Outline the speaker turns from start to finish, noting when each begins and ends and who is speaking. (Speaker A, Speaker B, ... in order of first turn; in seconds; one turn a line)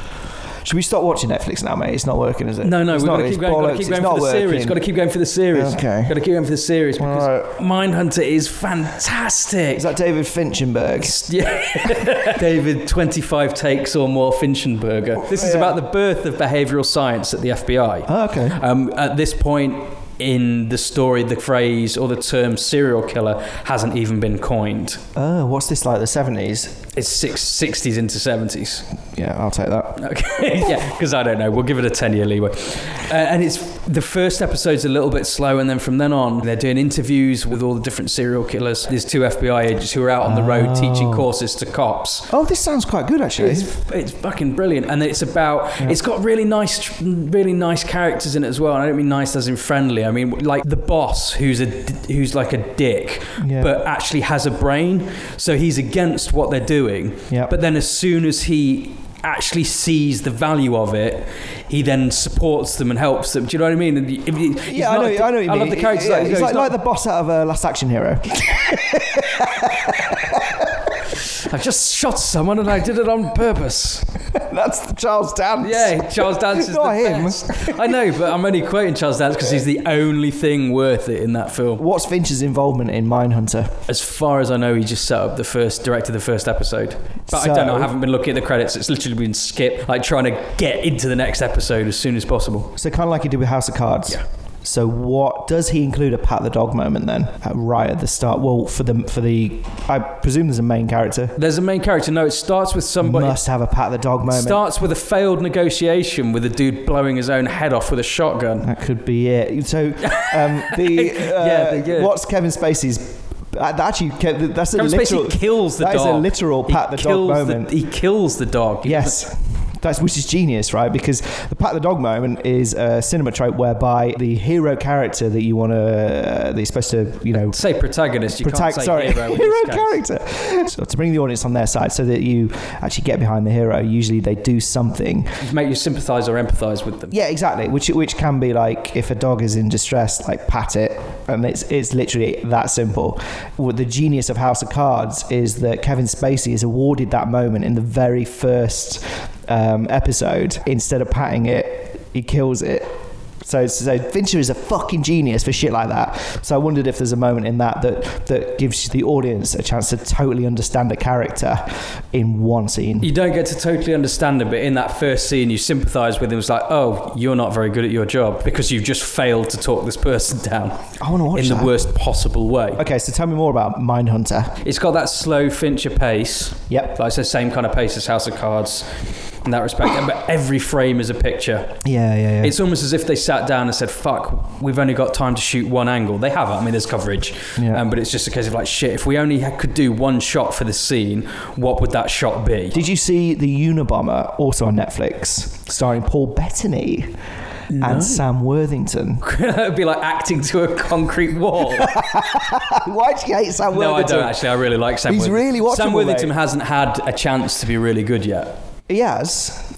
Speaker A: 0.6-4.8
Speaker B: 2.6-9.9
Speaker A: 5.5-6.2
Speaker A: 7.0-7.5
Speaker A: 9.8-11.2
Speaker B: 11.0-25.0
Speaker A: 15.3-15.8
Speaker A: 18.1-18.6
Speaker A: 25.2-26.8
Speaker B: 26.9-28.9
Speaker A: 29.1-30.0
Speaker B: 30.0-42.3
Speaker A: 40.2-41.3
Speaker A: 42.3-43.7
Speaker B: 43.4-66.8
Speaker A: 53.4-53.7
Speaker A: 64.7-70.9
Speaker B: 71.2-74.1
Speaker A: 74.3-78.0
Speaker B: 75.6-81.8
Speaker A: 81.8-83.8
Speaker B: 83.9-92.7
Speaker A: 87.3-87.9
Speaker A: 92.8-101.4
Speaker B: 101.4-103.4
Speaker A: 103.0-104.6
Speaker B: 104.3-108.7
Speaker A: 108.6-117.7
Speaker B: 110.0-112.1
Speaker B: 114.8-119.2
Speaker A: 118.8-127.6
Speaker B: 127.5-130.0
Speaker A: 128.4-135.4
Speaker B: 135.4-137.2
Speaker A: 137.1-163.1
Speaker B: 163.0-170.8
Speaker A: 171.0-171.8
Speaker B: 171.3-172.8
Speaker A: 172.8-174.6
Speaker B: 174.6-178.9
Speaker A: 176.7-176.9
Speaker B: 179.4-181.8
Speaker A: 181.8-182.6
Speaker B: 182.4-192.8
Speaker A: 187.6-187.8
Speaker A: 192.7-197.2
Speaker B: 197.7-198.2
Speaker A: 197.8-199.2
Speaker B: 199.2-202.1
Speaker A: 201.7-204.4
Speaker B: 203.7-208.6
Speaker A: 205.1-206.3
Speaker A: 208.9-209.7